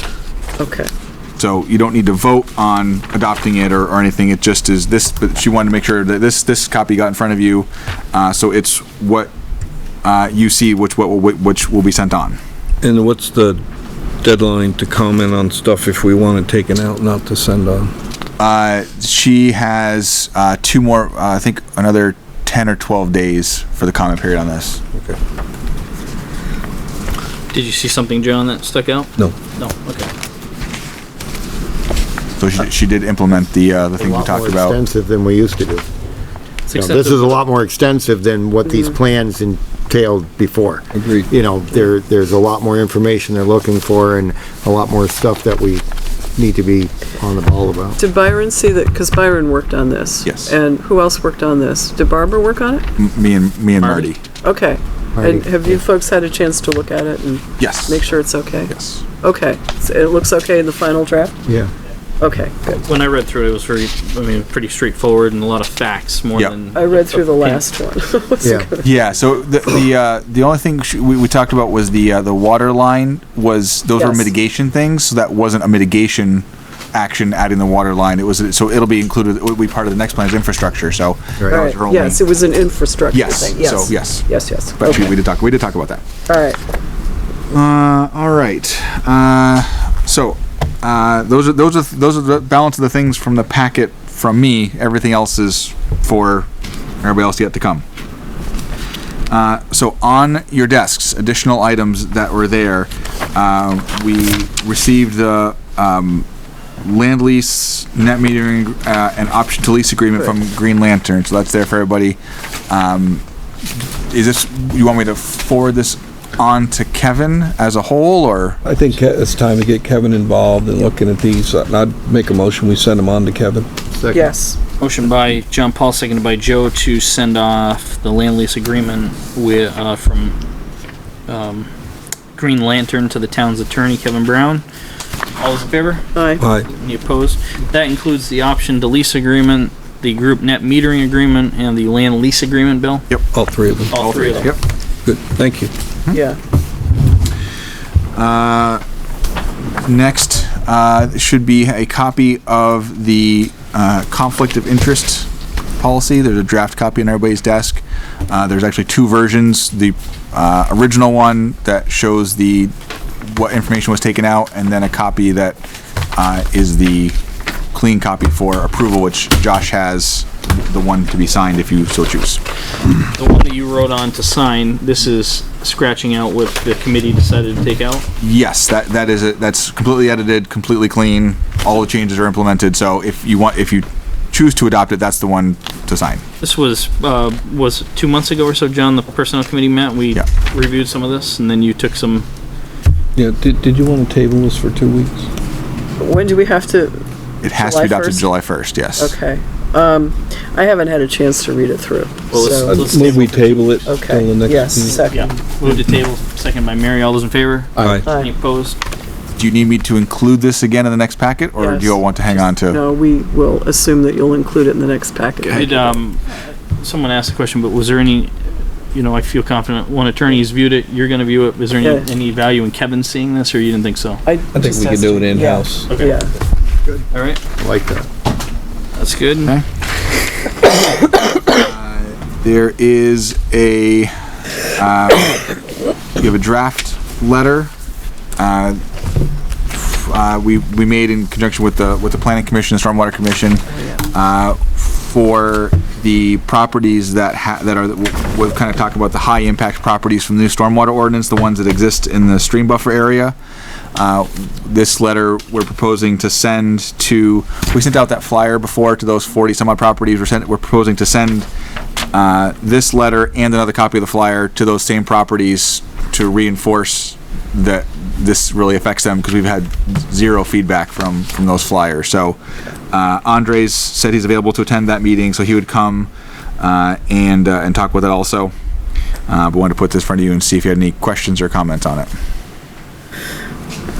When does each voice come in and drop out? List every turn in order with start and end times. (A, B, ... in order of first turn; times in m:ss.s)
0:00.6-0:00.9 A
0:01.4-0:09.3 B
0:10.0-0:12.4 B
0:12.8-0:13.6 C
0:14.2-0:17.9 C
0:18.4-0:24.8 B
0:27.5-0:30.1 D
0:32.4-0:34.8 B
0:34.0-0:35.8 E
0:36.7-0:37.3 D
0:36.7-0:45.8 E
0:40.9-0:41.3 C
0:46.4-0:48.0 E
0:48.0-0:52.8 A
0:50.2-0:50.5 B
0:53.0-0:54.2 B
0:53.8-0:54.1 D
0:54.4-1:01.4 A
0:55.2-0:55.7 E
0:57.6-0:58.0 B
0:58.7-0:59.0 B
1:01.5-1:01.7 E
1:02.2-1:02.8 A
1:02.8-1:07.6 D
1:06.7-1:08.9 A
1:08.4-1:08.7 E
1:08.8-1:22.2 B
1:14.0-1:14.3 A
1:21.5-1:25.1 A
1:23.1-1:24.3 B
1:24.8-1:26.0 B
1:26.3-1:26.6 A
1:27.5-1:36.5 B
1:37.0-1:37.8 B
1:39.3-1:46.2 B
1:46.8-1:53.2 B
1:54.1-1:58.6 B
1:58.6-2:03.7 C
2:03.9-2:04.3 E
2:04.1-2:04.6 A
2:04.8-2:10.3 D
2:11.3-2:11.7 D
2:12.3-2:14.6 D
2:15.4-2:16.0 D
2:16.1-2:16.4 A
2:16.4-2:16.7 C
2:16.6-2:23.0 D
2:23.3-2:24.0 C
2:23.9-2:24.5 D
2:23.9-2:24.6 B
2:25.0-2:25.7 C
2:26.1-2:26.4 A
2:28.1-2:28.8 B
2:29.8-2:45.6 B
2:46.1-2:47.2 B
2:47.7-2:52.4 B
2:53.1-2:58.0 D
2:58.2-3:06.2 B
3:06.4-3:12.3 D
3:13.2-3:15.3 C
3:16.0-3:18.3 A
3:17.4-3:19.2 B
3:19.0-3:22.9 A
3:22.3-3:23.8 D
3:22.6-3:25.0 C
3:23.8-3:25.3 A
3:25.1-3:28.8 D
3:27.8-3:28.0 C
3:28.0-3:28.3 A
3:29.4-3:32.8 B
3:31.6-3:35.9 A
3:35.4-3:35.8 B
3:35.5-3:38.3 D
3:38.9-3:44.2 D
3:41.8-3:42.1 A
3:44.2-3:46.3 A
3:44.5-3:45.9 C
3:45.9-3:46.2 D
3:47.1-3:47.4 D
3:47.6-3:48.1 E
3:49.0-3:49.5 D
3:51.5-3:54.1 B
3:54.7-3:55.4 B
3:56.2-3:57.7 B
3:58.4-3:58.8 B
3:59.7-4:13.4 B
4:13.9-4:21.5 B
4:22.1-4:32.4 B
4:32.9-4:38.5 B
4:39.3-4:42.1 B